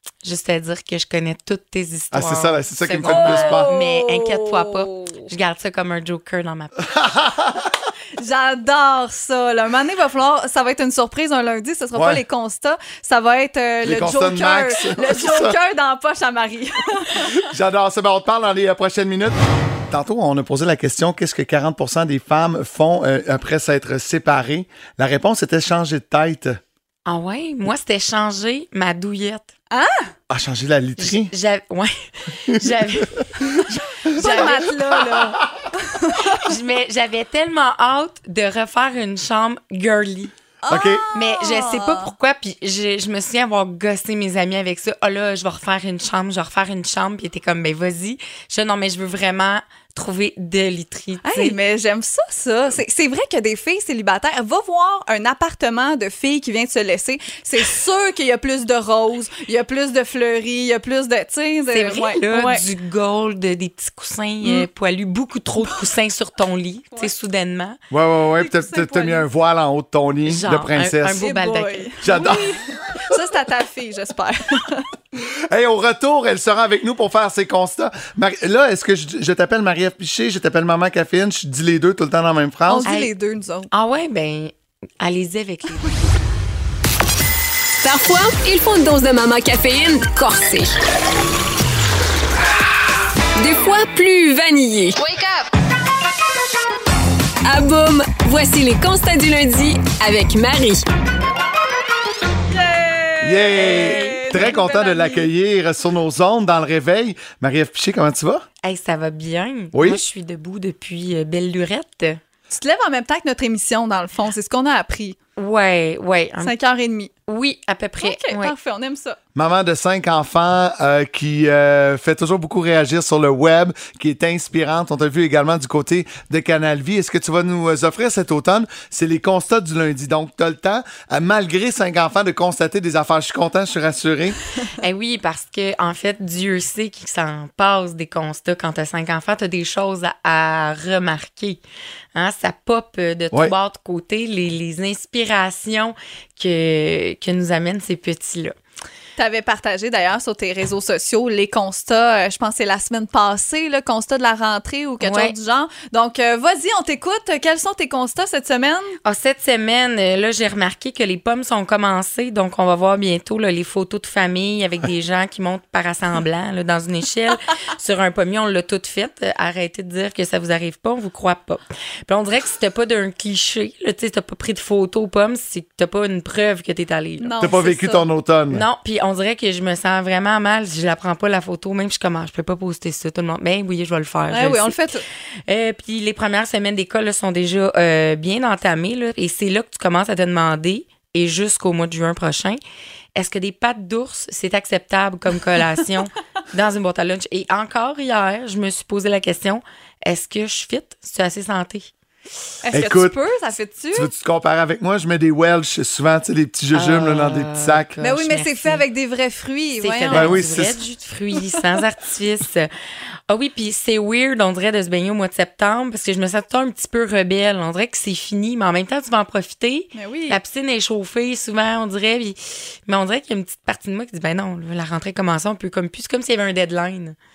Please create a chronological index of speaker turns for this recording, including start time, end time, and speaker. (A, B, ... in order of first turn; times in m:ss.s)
0:00.2-0:06.8 A
0:02.1-0:03.7 B
0:03.0-0:05.3 C
0:06.9-0:07.7 B
0:08.2-0:17.4 C
0:11.9-0:12.2 B
0:13.8-0:15.6 B
0:17.2-0:19.4 B
0:19.9-0:26.6 B
0:27.0-0:29.5 A
0:29.7-0:30.1 C
0:30.3-0:31.3 B
0:31.0-0:34.8 A
0:32.5-0:33.0 B
0:33.6-0:35.2 B
0:34.1-0:36.4 C
0:36.4-0:40.3 A
0:40.6-0:42.1 C
0:40.7-0:41.0 B
0:41.1-0:51.6 A
0:51.2-1:02.6 C
1:01.7-1:07.8 A
1:07.9-1:11.2 B
1:08.4-1:09.2 C
1:10.3-1:12.3 A
1:11.1-1:14.9 C
1:12.0-1:12.9 B
1:15.5-1:22.9 B
1:22.7-1:23.7 C
1:22.8-1:23.1 A
1:23.7-1:26.1 A
1:27.8-1:30.8 D
1:33.4-1:35.4 D
1:37.4-1:40.8 D
1:42.5-1:45.3 C
1:43.2-1:48.4 B
1:43.6-1:44.4 A
1:48.6-1:52.2 A
1:49.7-1:50.0 B
1:52.5-1:55.2 C
1:55.4-1:56.6 A
1:56.4-1:57.1 C
1:57.3-1:58.5 A
1:58.0-1:59.2 C
1:59.3-2:14.4 B
2:14.8-2:21.6 A
2:22.1-2:28.6 A
2:29.2-2:39.0 C
2:35.0-2:35.3 A
2:39.0-2:57.3 A
2:57.2-2:58.0 C
2:57.4-2:58.6 B
2:58.5-3:04.8 A
3:04.3-3:05.0 C
3:05.5-3:12.6 A
3:13.1-3:21.9 A
3:22.6-3:24.1 C
3:22.7-3:23.2 B
3:23.9-3:27.9 B
3:26.7-3:28.8 A
3:28.0-3:30.4 C
3:29.8-3:32.7 A
3:30.1-3:30.8 B
3:33.3-3:47.2 A
3:39.9-3:40.4 C